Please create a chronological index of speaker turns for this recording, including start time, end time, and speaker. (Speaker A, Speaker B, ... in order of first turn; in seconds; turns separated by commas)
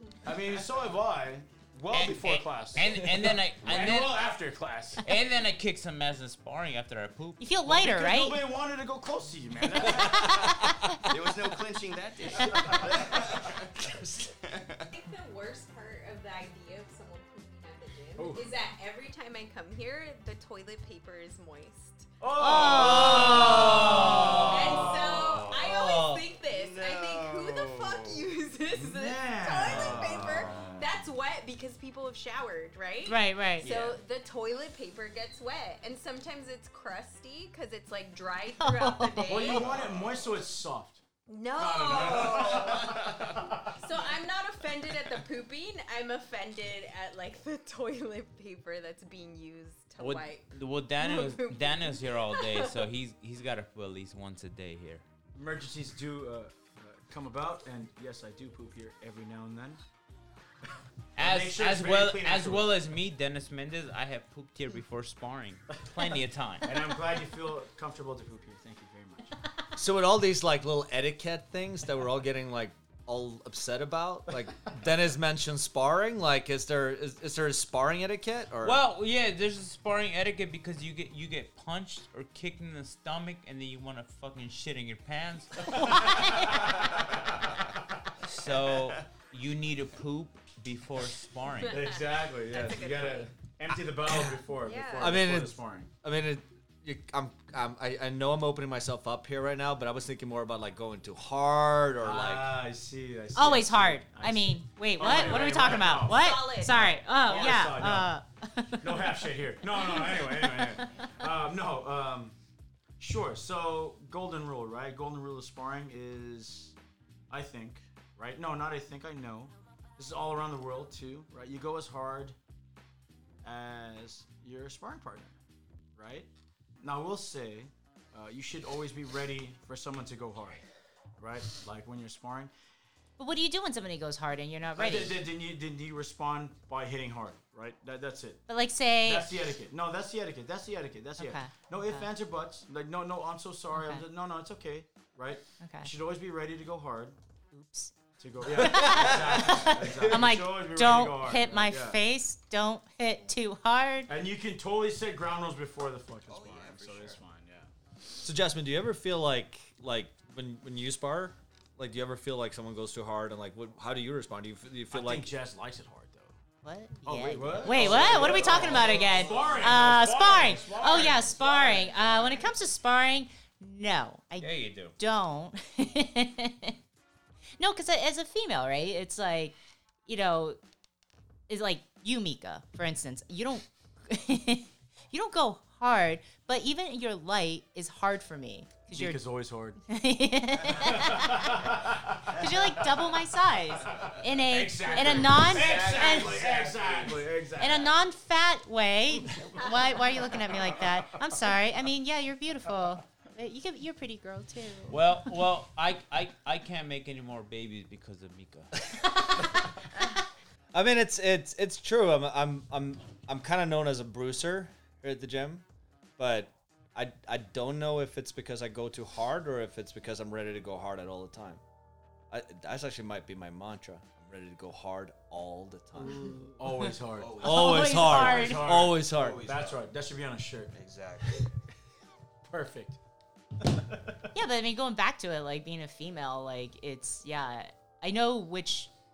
Speaker A: 0.2-5.1, Speaker B: 1.9-4.2, Speaker B: 5.0-7.4, Speaker C: 7.4-8.4, Speaker A: 7.7-10.9, Speaker C: 9.8-11.1, Speaker D: 11.1-14.9, Speaker A: 12.4-13.3, Speaker E: 14.9-22.2, Speaker A: 18.2-18.5, Speaker A: 22.2-25.5, Speaker C: 22.4-24.3, Speaker F: 23.0-24.9, Speaker D: 23.1-24.4, Speaker E: 24.5-39.8, Speaker F: 25.7-26.2, Speaker D: 26.4-28.2, Speaker A: 28.7-30.7, Speaker D: 29.7-30.9, Speaker B: 29.7-30.8, Speaker C: 33.1-33.7, Speaker D: 33.6-34.0, Speaker C: 38.6-39.2, Speaker A: 39.3-41.0, Speaker D: 39.5-40.3, Speaker E: 41.3-42.9, Speaker A: 41.6-43.8, Speaker D: 41.8-43.5, Speaker E: 43.8-52.8, Speaker B: 50.0-55.0, Speaker A: 55.4-59.8, Speaker B: 61.2-66.8, Speaker A: 61.2-62.7, Speaker A: 66.6-69.3, Speaker F: 69.8-78.8, Speaker B: 78.6-86.7, Speaker A: 85.8-87.1, Speaker B: 88.2-91.9, Speaker D: 88.5-89.0, Speaker A: 91.7-95.9, Speaker E: 91.7-93.3, Speaker F: 94.1-94.4, Speaker E: 94.6-95.2, Speaker F: 95.0-102.6, Speaker A: 102.0-106.5, Speaker C: 103.3-109.2, Speaker E: 105.0-107.6, Speaker A: 107.1-108.2, Speaker A: 108.8-112.3, Speaker C: 109.7-111.0, Speaker A: 113.0-116.8, Speaker A: 117.3-122.4, Speaker A: 123.4-125.4, Speaker A: 126.0-126.3, Speaker A: 126.8-130.6, Speaker A: 131.2-132.5, Speaker C: 133.2-135.2, Speaker A: 134.8-138.5, Speaker C: 138.5-139.3, Speaker A: 139.0-147.2, Speaker C: 141.2-142.1, Speaker C: 143.7-144.1, Speaker C: 145.6-145.9, Speaker C: 147.5-147.9, Speaker A: 148.2-152.0, Speaker C: 148.4-154.1, Speaker F: 148.6-149.6, Speaker A: 154.1-157.7, Speaker D: 156.3-157.2, Speaker F: 158.2-165.3, Speaker A: 164.9-166.4, Speaker C: 166.6-176.8, Speaker A: 167.1-172.3, Speaker D: 167.7-169.8, Speaker B: 174.4-174.9, Speaker C: 177.6-179.6, Speaker C: 180.1-180.6, Speaker C: 181.5-189.2, Speaker A: 188.9-189.8, Speaker C: 189.9-191.8, Speaker A: 190.8-193.1, Speaker C: 192.3-196.4, Speaker A: 193.8-197.9, Speaker D: 195.1-197.3, Speaker C: 197.6-205.0, Speaker A: 199.3-199.5, Speaker A: 200.5-200.8, Speaker B: 204.9-208.8, Speaker F: 210.7-215.6, Speaker F: 216.2-221.6, Speaker F: 222.3-226.2, Speaker C: 226.0-226.9, Speaker A: 226.6-230.7, Speaker D: 227.1-229.9, Speaker F: 227.4-229.5, Speaker C: 227.4-228.7, Speaker D: 230.7-231.4, Speaker A: 232.4-233.0, Speaker A: 233.7-234.2, Speaker C: 234.3-238.9